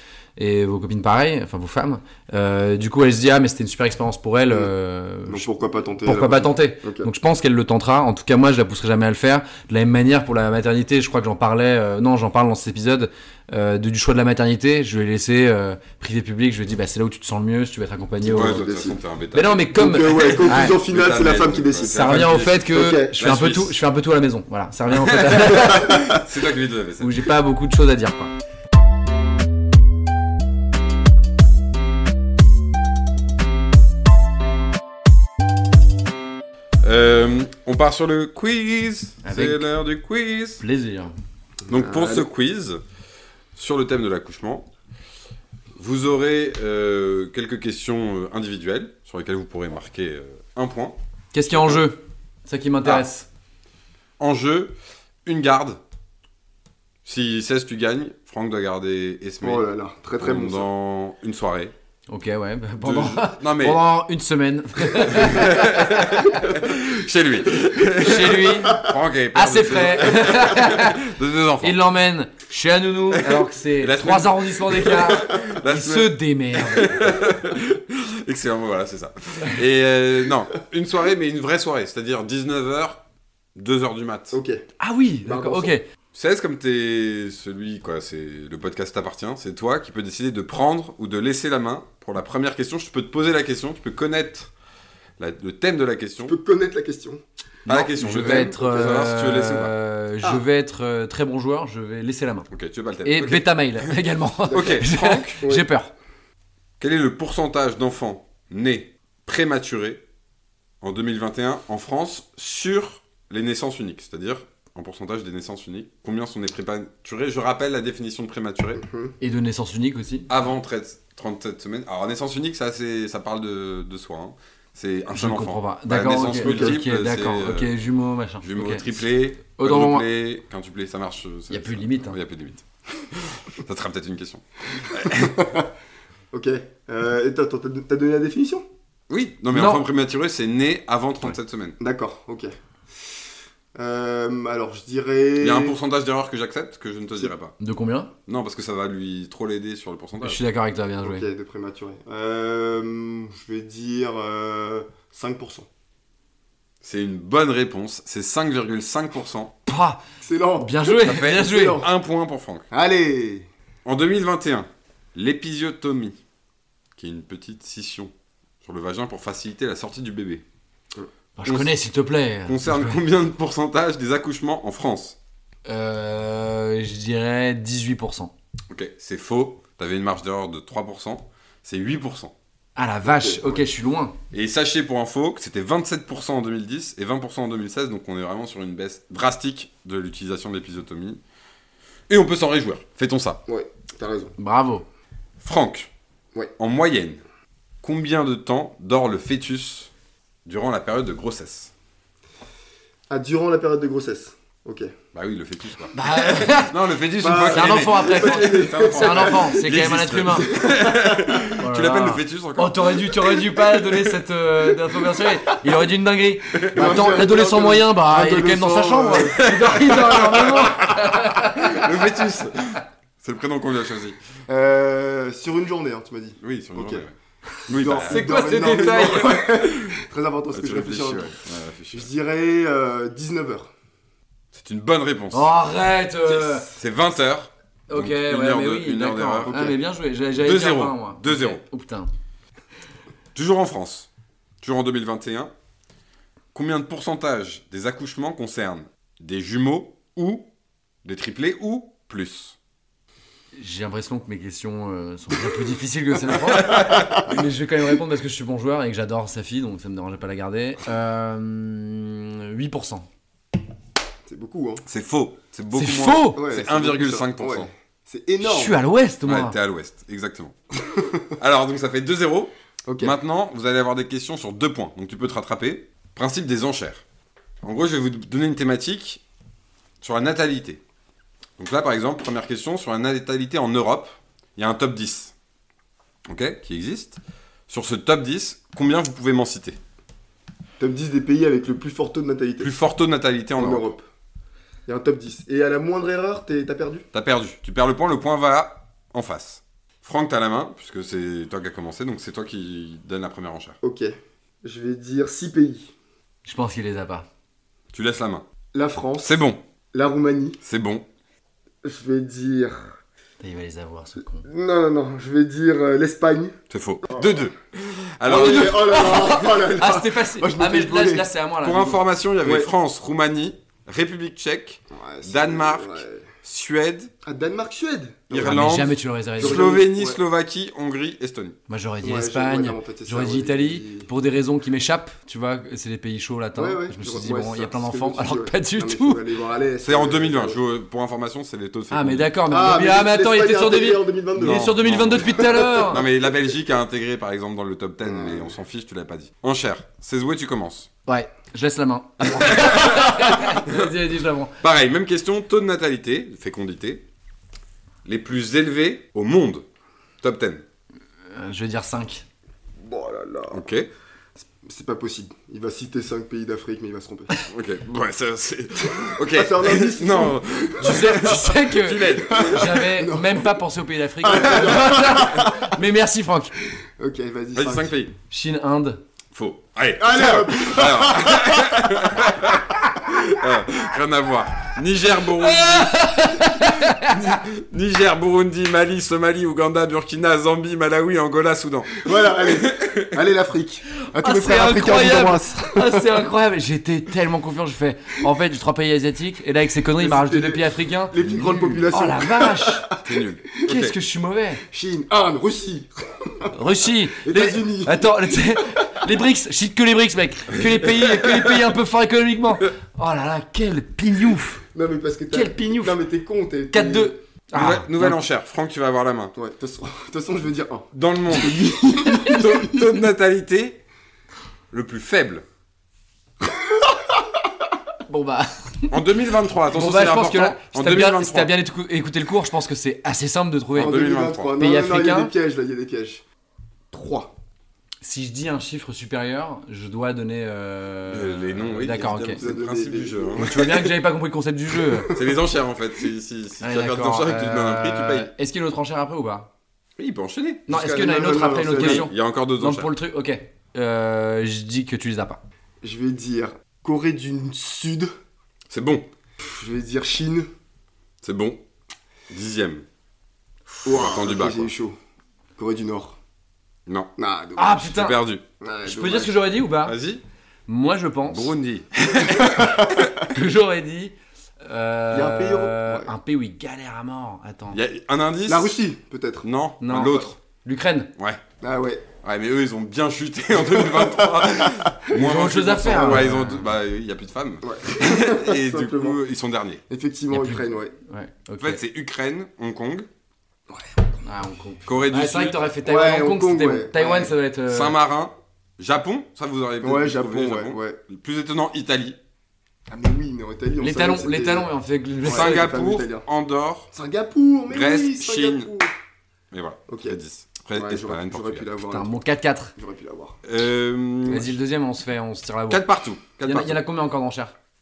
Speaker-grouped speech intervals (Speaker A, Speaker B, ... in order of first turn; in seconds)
Speaker A: 0.4-5.5, 6.0-18.6, 19.3-20.8, 21.9-26.0, 27.0-28.3, 39.2-39.7, 40.6-41.1, 51.3-53.3, 62.1-66.4, 68.0-71.0, 71.6-77.0, 84.8-85.8, 97.7-102.5, 103.0-105.9, 119.2-120.3, 125.1-128.9, 129.6-130.1, 131.5-132.2, 139.5-139.8, 147.6-148.1, 150.2-151.2, 159.7-160.0, 160.6-161.8, 171.4-173.0, 175.7-178.3, 182.8-184.1, 194.4-194.8, 205.9-206.7, 207.4-210.5, 211.6-222.1, 227.9-229.4, 235.3-236.7, 237.9-242.1, 253.6-263.1, 265.7-266.4, 268.4-269.6, 306.4-307.3, 313.4-314.4, 318.3-322.0, 328.4-329.7, 331.7-339.2, 341.9-346.0, 351.1-354.6, 361.3-362.2, 370.8-376.6, 378.3-379.0, 385.4-387.4, 394.1-402.9, 403.6-404.6, 406.5-414.6, 415.3-416.0, 416.7-418.1, 422.0-422.3, 428.1-428.9, 429.7-433.9, 434.6-435.3, 438.0-442.4, 443.4-445.2, 446.6-449.5, 450.7-455.4, 467.6-468.2, 468.8-470.0, 470.7-471.5, 473.2-477.8, 479.8-481.1, 485.1-486.6, 490.3-491.8, 494.2-497.9, 503.8-505.8, 511.9-512.7, 514.2-515.8, 516.4-517.5
Speaker B: 5.3-7.1, 18.2-19.0, 19.7-23.1, 25.7-26.2, 41.7-42.2, 59.4-60.7, 84.3-84.6, 85.2-85.7, 96.2-97.2, 98.0-99.1, 104.5-104.9, 118.8-119.1, 126.4-126.8, 135.1-135.7, 136.3-138.6, 141.8-142.5, 143.8-145.8, 151.0-155.7, 160.2-161.9, 162.7-163.5, 183.1-183.6, 193.5-194.3, 203.1-204.9, 207.2-209.5, 210.5-211.4, 216.7-219.4, 224.5-227.0, 227.7-231.3, 231.9-233.7, 239.5-239.8, 256.7-257.2, 264.2-264.8, 266.4-268.8, 270.9-271.2, 272.9-273.1, 290.8-292.7, 293.6-294.1, 294.9-297.1, 303.8-305.9, 308.7-310.6, 311.8-312.9, 314.4-316.6, 317.1-317.4, 318.2-321.3, 322.4-322.7, 324.9-326.2, 327.2-328.6, 329.4-330.2, 332.0-334.1, 336.6-340.6, 342.5-344.7, 345.4-346.3, 348.1-348.5, 362.8-363.6, 364.4-367.3, 369.1-371.1, 372.2-373.5, 374.2-375.7, 376.7-377.9, 380.0-382.3, 392.1-396.1, 400.0-403.0, 404.7-406.5, 407.1-408.6, 414.7-417.1, 419.4-422.9, 426.5-427.0, 433.7-436.2, 436.9-437.3, 442.4-443.5, 450.7-452.1, 455.8-458.1, 459.4-460.5, 463.9-465.0, 465.6-466.2, 467.2-467.9, 468.6-469.5, 472.3-472.9, 475.1-476.1, 478.4-479.4, 481.6-482.0, 483.6-485.1, 487.6-489.2, 489.9-490.9, 495.8-497.3, 499.8-501.0, 502.9-504.7, 505.2-506.2, 506.9-508.9, 509.9-510.2, 510.7-512.1, 512.8-513.4
Speaker C: 18.2-23.8, 24.9-27.2, 36.8-40.6, 41.7-42.8, 43.5-44.7, 45.8-51.0, 51.5-51.8, 54.2-54.7, 55.2-55.8, 57.0-59.6, 60.2-61.7, 62.8-63.8, 65.0-71.8, 73.2-83.0, 83.5-84.4, 86.1-94.5, 95.2-96.4, 97.7-99.7, 102.5-103.9, 104.5-105.4, 106.8-110.0, 110.8-118.8, 120.3-127.7, 128.4-135.4, 139.1-141.8, 145.4-147.6, 148.3-150.4, 156.8-159.5, 161.0-162.7, 163.8-166.2, 167.0-168.1, 168.6-170.4, 171.4-171.7, 172.5-175.2, 178.7-182.3, 184.3-191.2, 192.1-193.4, 195.4-195.9, 196.6-197.2, 197.8-199.9, 200.4-201.7, 205.1-213.4, 216.5-217.1, 219.3-224.2, 226.4-227.1, 227.7-230.0, 230.5-232.1, 234.5-235.5, 236.3-239.7, 240.3-241.6, 243.3-244.1, 244.6-245.5, 246.5-250.4, 251.0-252.6, 256.6-257.0, 264.9-267.7, 269.2-270.6, 271.4-277.0, 277.6-279.2, 280.0-280.8, 281.6-285.3, 286.3-289.8, 292.6-293.9, 297.1-303.8, 307.9-308.4, 309.2-309.6, 310.6-311.1, 316.7-319.2, 321.6-327.1, 328.3-331.6, 339.8-342.3, 344.4-350.9, 352.3-353.9, 354.6-357.0, 358.1-359.6, 360.2-360.6, 363.5-363.9, 367.5-372.8, 377.6-378.1, 379.3-393.2, 403.0-403.9, 410.6-411.6, 417.5-419.4, 420.9-423.8, 424.7-425.4, 428.9-431.5, 433.7-434.5, 441.1-443.9, 445.0-448.3, 450.0-452.9, 458.7-459.1, 461.2-461.6, 462.3-462.8, 463.7-464.7, 467.8-468.4, 469.8-470.2, 471.3-473.3, 477.7-478.8, 479.4-480.3, 482.2-489.8, 491.6-493.1, 494.9-495.6, 497.7-502.2, 505.2-506.9, 507.7-508.7, 509.5-511.6, 513.4-514.5, 515.7-516.8